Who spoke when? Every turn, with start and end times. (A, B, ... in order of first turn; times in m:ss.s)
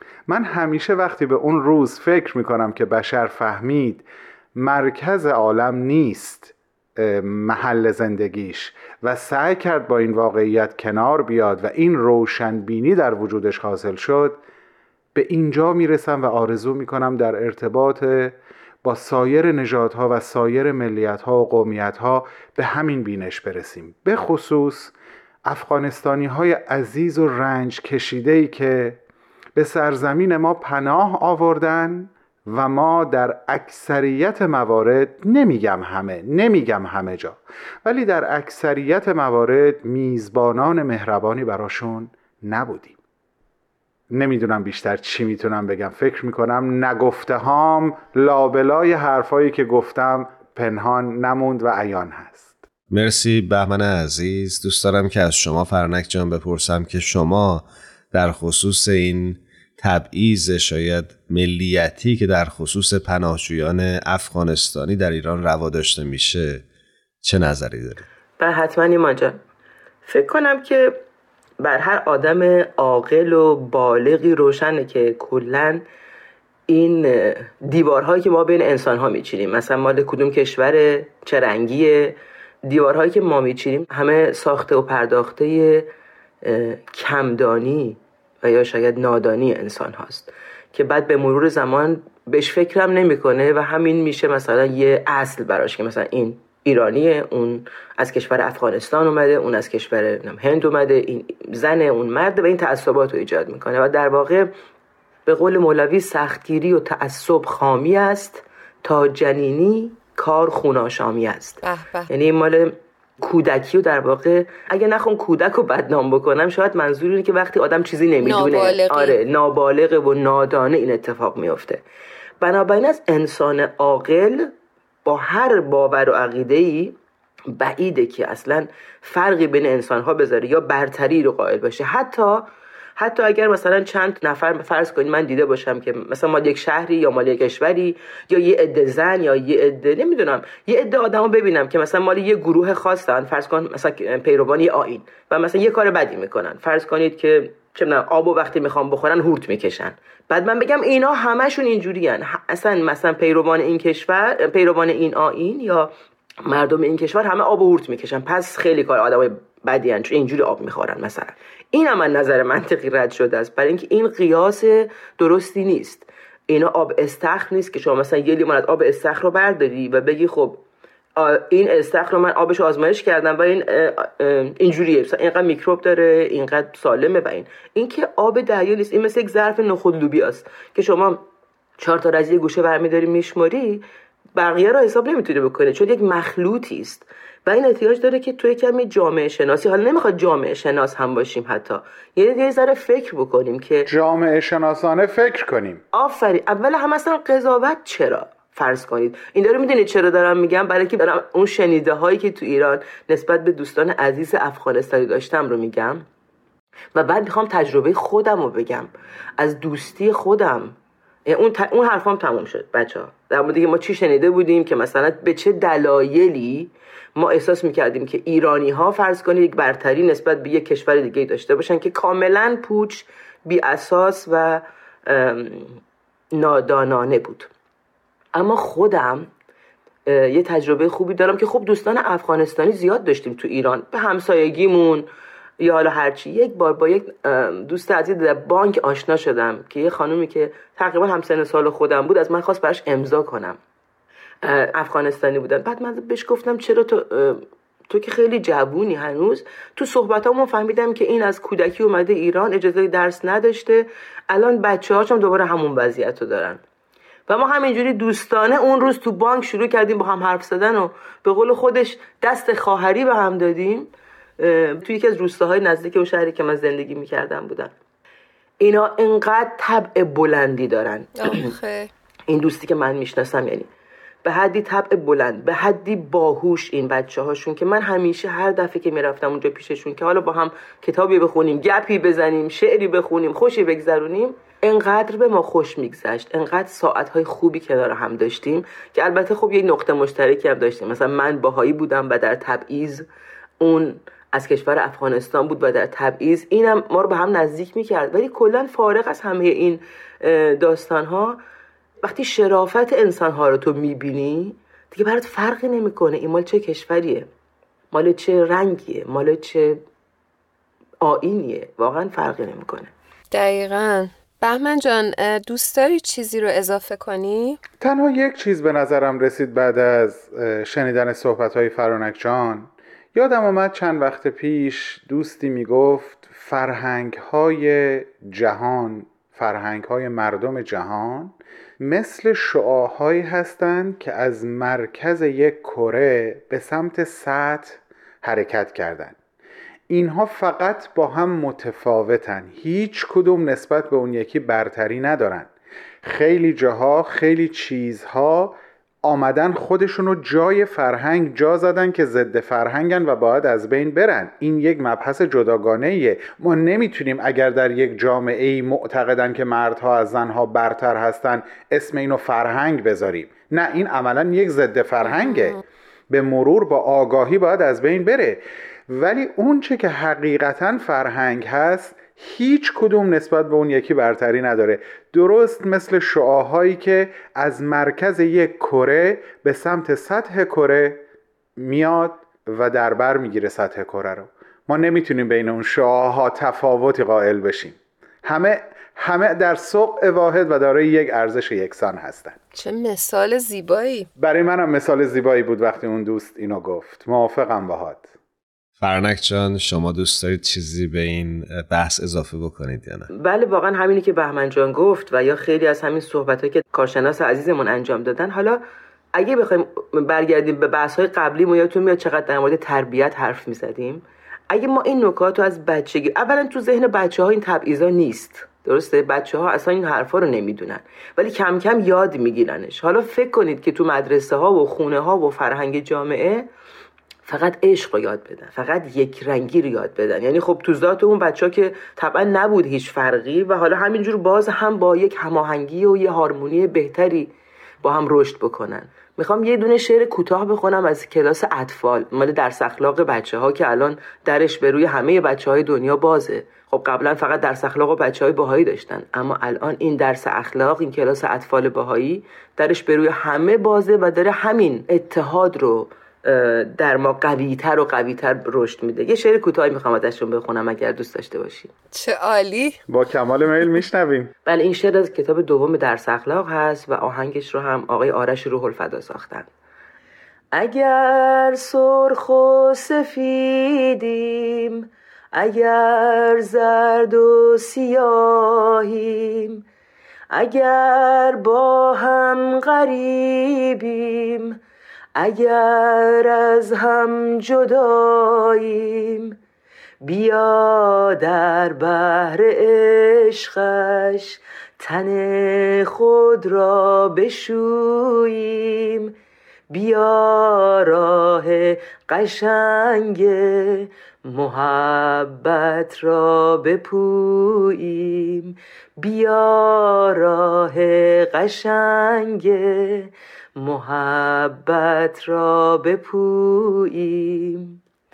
0:00.3-0:14.4 A
0:15.1-0:24.9 A
0:25.4-0:29.0 A
0:29.6-0:43.0 A
0:44.1-0:52.6 A
0:52.9-1:06.6 B
1:07.2-1:08.0 B
1:08.4-1:09.4 C
1:10.0-1:11.0 C
1:11.6-1:15.8 C
1:16.7-1:25.9 C
1:26.4-1:44.5 C
1:45.3-2:01.8 C
1:51.6-1:52.1 D
1:58.2-1:59.2 D
2:02.4-2:04.5 C
2:05.0-2:07.0 C
2:07.5-2:35.9 C
2:36.4-2:50.6 C
2:51.2-3:01.2 C
3:01.8-3:03.8 C
3:04.4-3:13.9 C
3:13.8-3:15.8 A
3:15.9-3:26.0 C
3:26.9-3:30.7 C
3:31.2-3:45.8 C
3:46.3-3:47.5 C
3:48.3-3:49.3 C
3:50.1-3:55.1 C
3:55.6-4:03.6 C
4:04.4-4:16.6 C
4:17.3-4:27.7 C
4:28.6-4:31.5 C
4:31.2-4:31.9 D
4:32.3-4:33.7 C
4:34.2-4:53.1 C
4:53.6-5:01.4 C
5:02.0-5:07.3 C
5:07.9-5:09.8 C
5:11.0-5:12.9 C
5:13.3-5:17.6 D
5:17.8-5:39.2 A
5:39.9-5:45.5 A
5:46.0-6:21.0 A
6:05.2-6:05.5 D
6:21.6-6:32.4 A
6:32.5-6:34.1 D
6:34.2-6:38.1 A
6:38.8-6:43.1 B
6:43.1-6:48.6 C
6:49.1-7:06.5 C
7:07.2-7:41.7 C
7:41.9-7:42.8 D
7:42.9-7:44.3 A
7:44.4-7:49.5 C
7:50.5-7:59.6 C
8:00.3-8:04.6 C
8:05.2-8:09.4 C
8:10.0-8:19.1 C
8:19.7-8:37.8 C